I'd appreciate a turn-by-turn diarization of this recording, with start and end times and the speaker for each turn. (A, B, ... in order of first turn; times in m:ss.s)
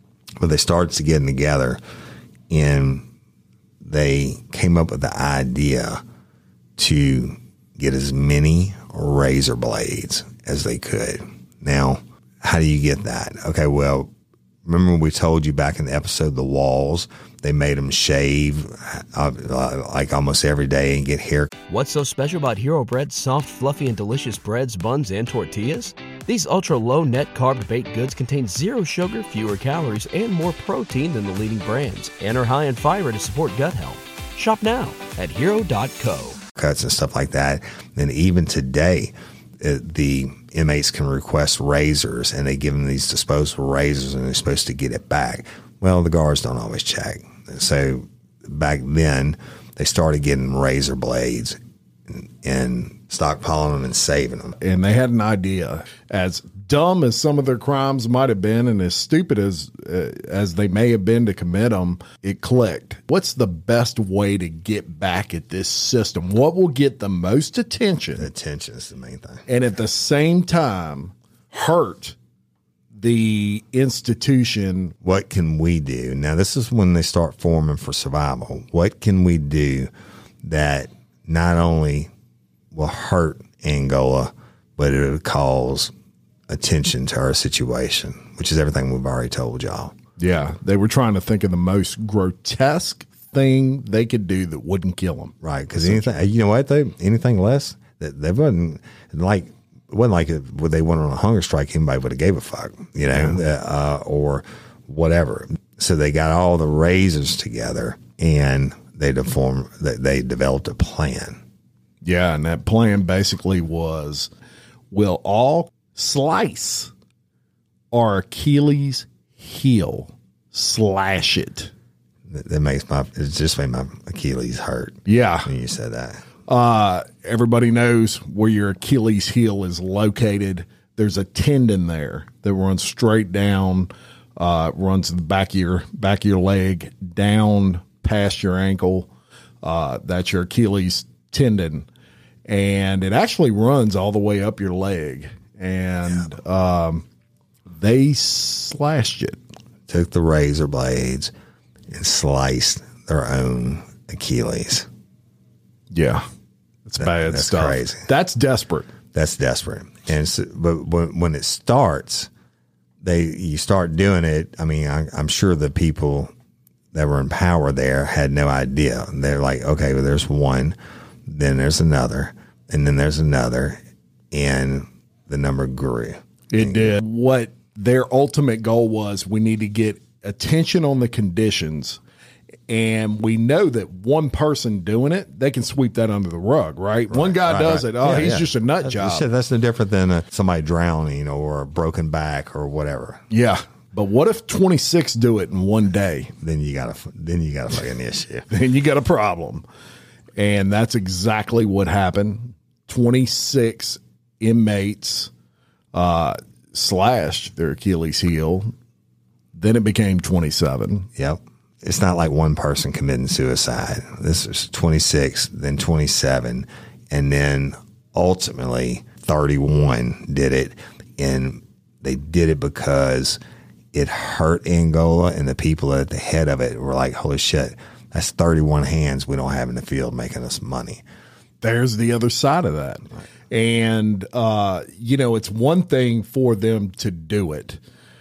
0:00.4-0:01.8 A
0:02.5-0:03.1 A
0:03.8-0:06.0 A
0:06.8-0:14.1 A
0:14.6-0:21.5 A
0:21.7-0:36.4 B
0:36.6-0:54.6 A
0:54.6-1:08.3 C
1:08.2-1:09.4 A
1:09.5-1:12.2 C
1:12.9-1:15.0 C
1:15.0-1:19.9 A
1:20.4-1:22.1 A
1:22.7-1:25.9 A
1:26.5-1:29.9 A
1:30.2-1:36.1 C
1:35.4-1:51.4 A
1:43.1-1:43.4 C
1:52.0-1:54.3 C
1:54.9-1:56.9 C
1:57.9-2:01.7 C
2:02.3-2:06.3 A
2:05.1-2:05.5 C
2:06.5-2:19.1 C
2:19.6-2:21.9 C
2:22.5-2:27.0 C
2:27.7-2:29.4 C
2:29.9-2:31.3 A
2:31.9-2:34.9 A
2:35.9-2:36.2 C
2:36.9-2:38.9 C
2:37.0-2:38.1 A
2:39.1-2:42.3 A
2:43.0-2:46.3 A
2:46.9-2:57.0 A
2:56.5-3:02.0 C
3:02.7-3:09.2 C
3:07.1-3:13.2 A
3:13.3-3:16.3 C
3:16.4-3:18.5 A
3:18.5-3:19.6 C
3:20.4-3:25.3 C
3:25.9-3:28.7 C
3:29.5-3:31.1 C
3:31.2-3:43.4 A
3:43.9-3:51.0 A
3:51.6-3:57.8 C